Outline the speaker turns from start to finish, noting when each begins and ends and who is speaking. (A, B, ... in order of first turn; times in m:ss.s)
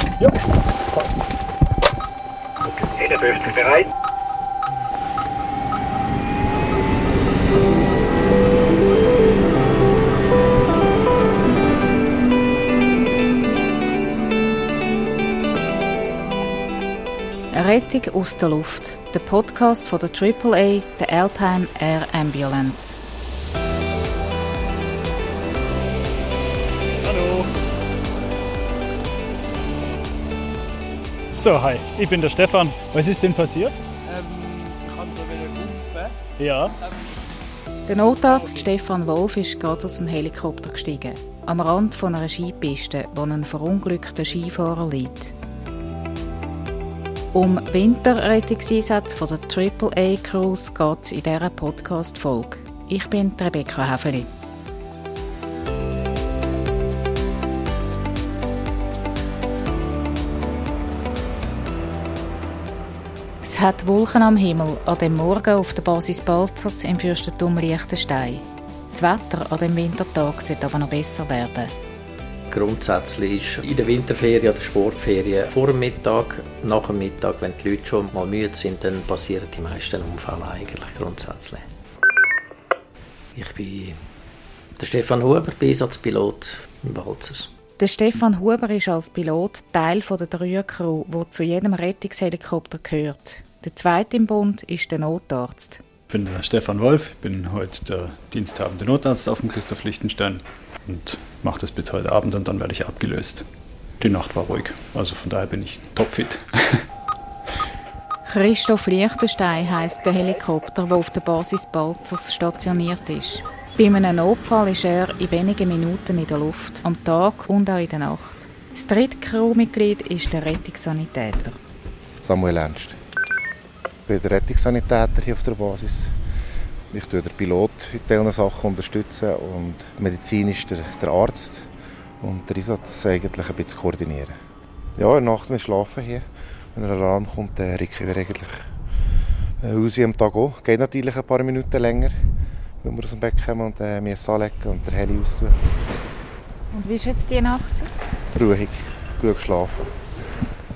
0:02.6-0:03.9 A
0:17.5-0:23.0 B
0:27.0-0:27.5 A
0:31.4-0:33.8 A
0:34.0-0:36.2 C
0:36.4-0:36.7 A
0:37.9-0:45.3 B
0:47.3-0:54.3 B
1:03.4-1:11.7 B
1:12.5-1:21.6 D
1:23.4-1:24.0 D
1:24.8-1:27.5 D
1:27.8-1:35.8 B
1:36.1-1:43.4 A
1:44.0-1:46.8 A
1:48.3-2:01.6 B
2:02.2-2:03.0 E
2:04.1-2:06.1 E
2:06.9-2:11.7 E
2:12.2-2:14.4 E
2:15.0-2:18.7 E
2:19.6-2:22.2 E
2:22.8-2:25.6 E
2:26.7-2:27.9 B
2:28.3-2:29.9 E